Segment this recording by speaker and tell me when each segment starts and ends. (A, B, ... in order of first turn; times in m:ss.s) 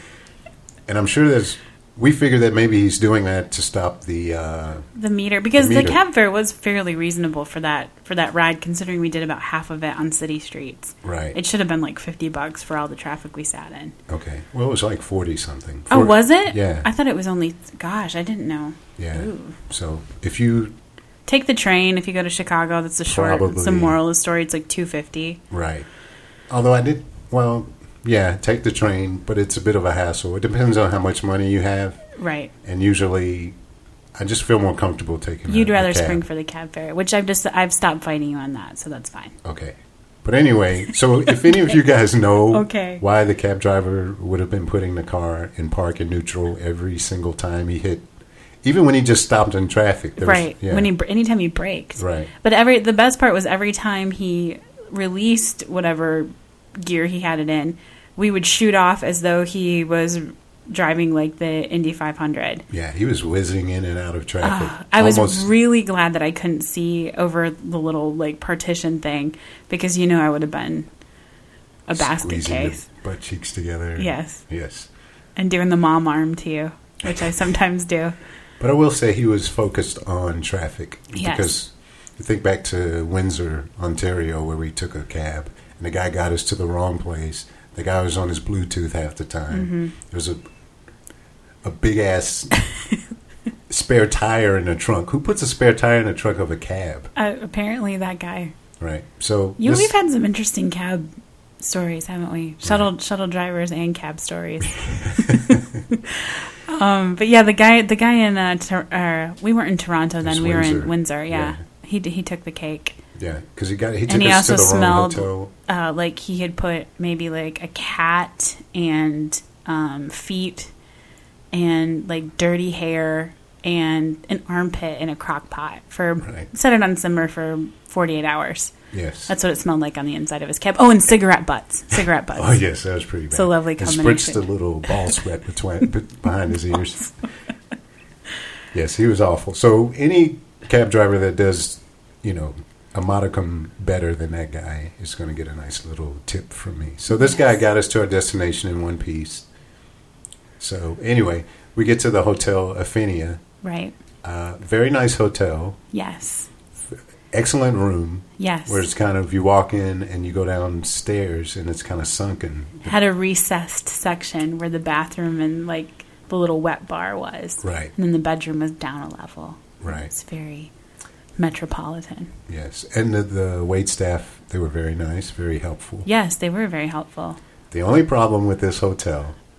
0:00.9-0:04.9 A
0:04.9-0:13.9 B
0:05.6-0:06.0 A
0:11.0-0:11.4 A
0:14.1-0:16.9 A
0:15.9-0:19.6 B
0:19.0-0:20.8 A
0:21.3-0:25.4 B
0:23.1-0:24.0 A
0:25.5-0:25.9 A
0:26.5-0:32.0 A
0:32.2-0:32.5 B
0:32.6-0:33.6 A
0:34.2-0:36.2 A
0:35.5-0:39.4 B
0:39.4-0:48.1 A
0:42.5-0:43.0 B
0:48.6-0:50.9 A
0:50.2-1:02.6 B
0:52.0-0:52.3 A
1:02.7-1:05.5 A
1:04.4-1:10.9 B
1:11.9-1:12.8 B
1:11.9-1:14.9 A
1:14.0-1:14.4 B
1:15.4-1:18.2 B
1:18.6-1:30.4 A
1:21.1-1:21.5 B
1:29.5-1:29.9 B
1:31.6-1:32.5 A
1:33.7-1:37.1 A
1:37.2-1:38.6 B
1:38.8-1:39.9 A
1:39.6-1:53.0 B
1:42.6-1:42.9 A
1:44.9-1:45.6 A
1:50.2-1:51.6 A
1:53.1-1:55.5 A
1:54.1-2:00.7 B
2:01.5-2:08.8 B
2:06.2-2:06.5 A
2:08.9-2:09.3 A
2:09.3-2:12.6 B
2:12.4-2:17.2 A
2:13.3-2:14.9 B
2:18.7-2:29.4 A
2:27.1-2:27.6 B
2:30.6-2:33.4 A
2:33.6-2:33.9 B
2:34.2-2:35.8 A
2:35.9-2:36.5 B
2:37.3-2:43.0 A
2:38.4-2:38.8 B
2:42.8-2:50.7 B
2:47.6-2:47.9 A
2:49.8-2:50.1 A
2:51.4-2:52.3 B
2:52.5-2:56.1 A
2:56.0-2:57.4 B
2:57.7-2:59.4 A